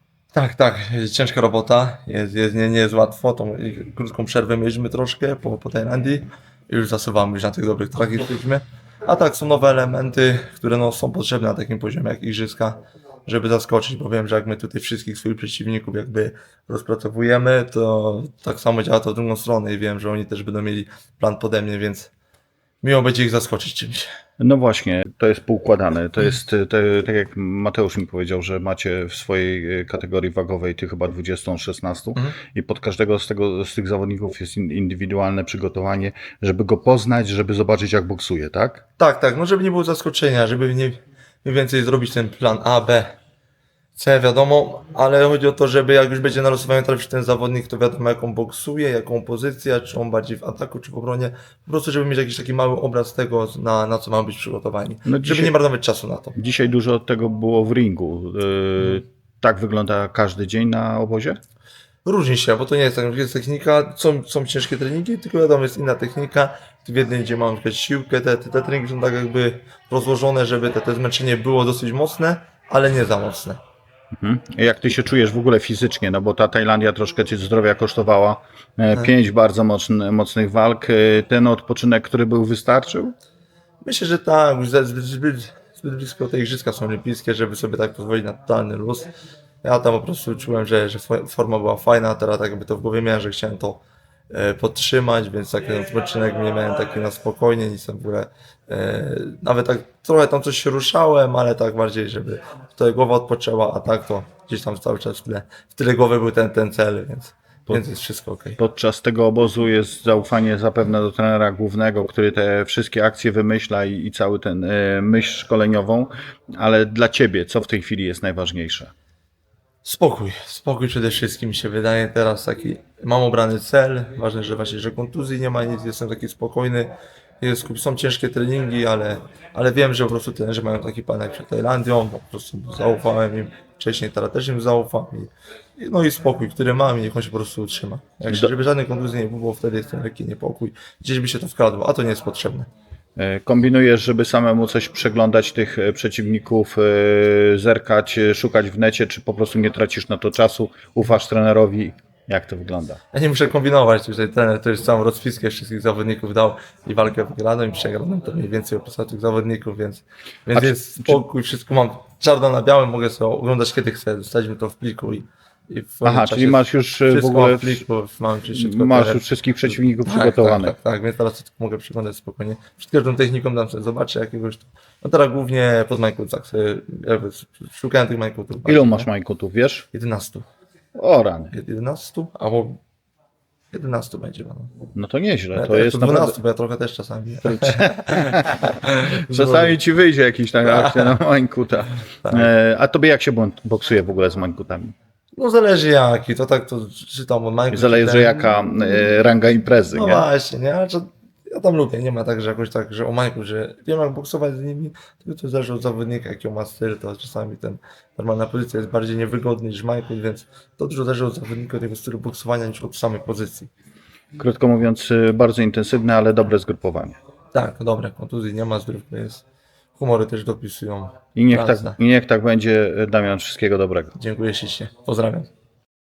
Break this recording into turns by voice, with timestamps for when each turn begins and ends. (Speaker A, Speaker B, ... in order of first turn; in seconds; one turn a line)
Speaker A: 0.3-22.1
Speaker A: 22.8-24.1
Speaker B: 24.4-38.8
Speaker A: 39.0-43.1
Speaker A: 43.9-56.4
Speaker B: 55.1-55.5
Speaker B: 56.4-61.4
Speaker A: 62.0-73.6
Speaker B: 74.2-83.1
Speaker A: 83.8-89.1
Speaker A: 89.6-108.6
Speaker B: 108.6-118.9
Speaker A: 119.8-142.7
Speaker B: 143.2-153.0
Speaker A: 153.1-179.1
Speaker B: 160.6-161.2
Speaker B: 166.0-167.8
Speaker B: 168.5-170.7
Speaker B: 178.6-179.9
Speaker A: 179.9-180.4
Speaker B: 180.9-181.5
Speaker A: 181.5-182.8
Speaker A: 183.7-184.7
Speaker B: 184.9-186.3
Speaker A: 185.5-189.8
Speaker B: 187.4-194.9
Speaker A: 190.6-191.1
Speaker A: 192.2-192.5
Speaker A: 195.3-198.3
Speaker B: 197.7-200.2
Speaker A: 199.9-213.7
Speaker B: 214.3-217.1
Speaker A: 217.5-219.4
Speaker A: 220.0-222.0
Speaker B: 221.3-224.1
Speaker A: 224.1-225.5